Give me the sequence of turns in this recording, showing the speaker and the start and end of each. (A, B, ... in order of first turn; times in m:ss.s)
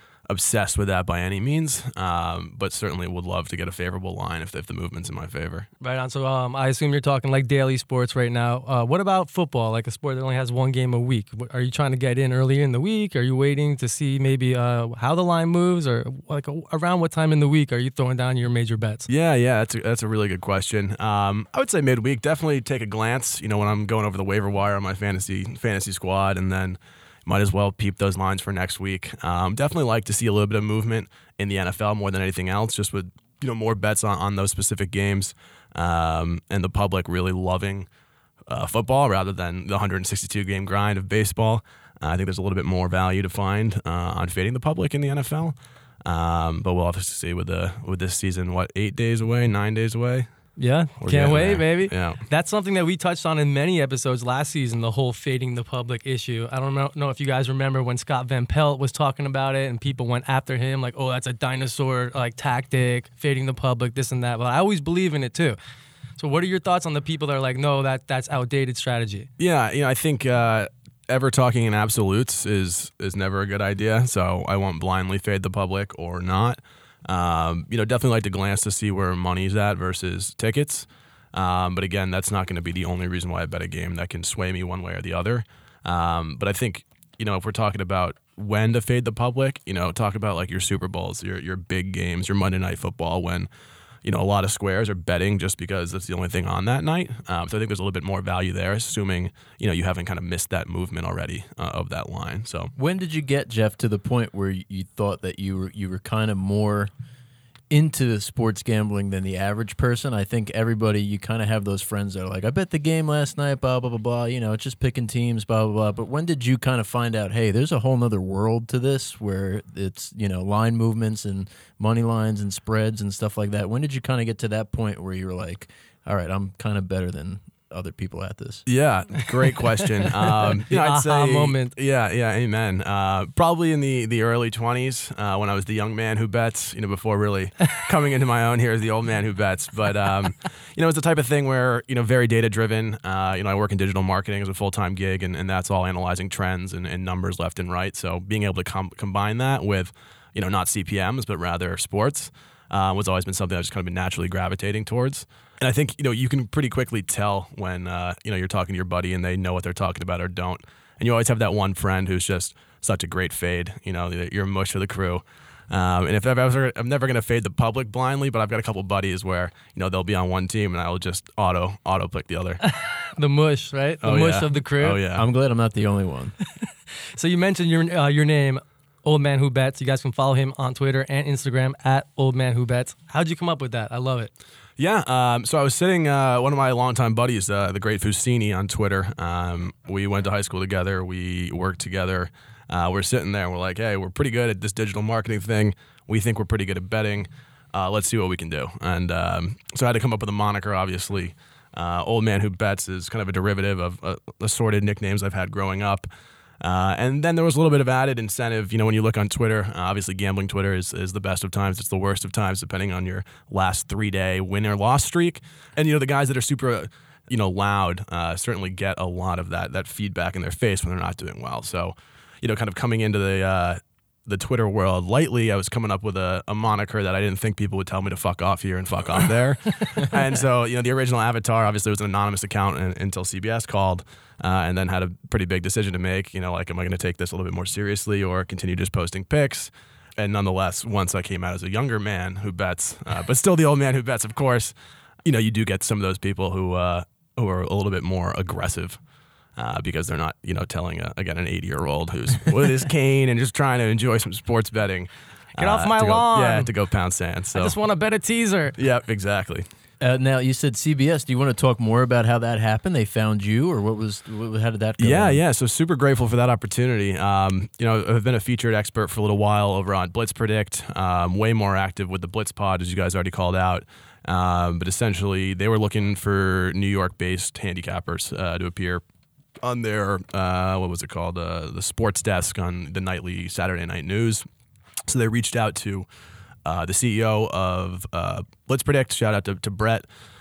0:00.3-0:05.7 A
0:05.8-0:19.1 B
0:19.1-0:37.9 A
0:38.5-0:50.3 A
0:50.6-1:05.6 B
0:51.0-0:52.2 A
1:06.2-1:09.3 B
1:09.4-1:33.5 A
1:34.0-1:42.7 A
1:42.8-1:46.9 C
1:47.7-2:08.6 C
2:08.7-2:52.6 A
2:10.3-2:11.7 B
2:52.7-2:55.0 B
2:54.0-2:55.2 A
2:55.1-2:56.3 C
2:57.1-3:04.3 B
3:04.8-3:26.1 A
3:26.6-4:04.7 A
4:05.2-4:09.0 A
4:09.6-4:17.8 A
4:15.6-4:16.7 B
4:17.5-4:18.8 B
4:18.8-4:19.6 A
4:20.0-4:25.4 C
4:25.0-4:39.0 A
4:39.6-4:44.4 A
4:45.1-4:46.1 A
4:46.6-4:50.0 A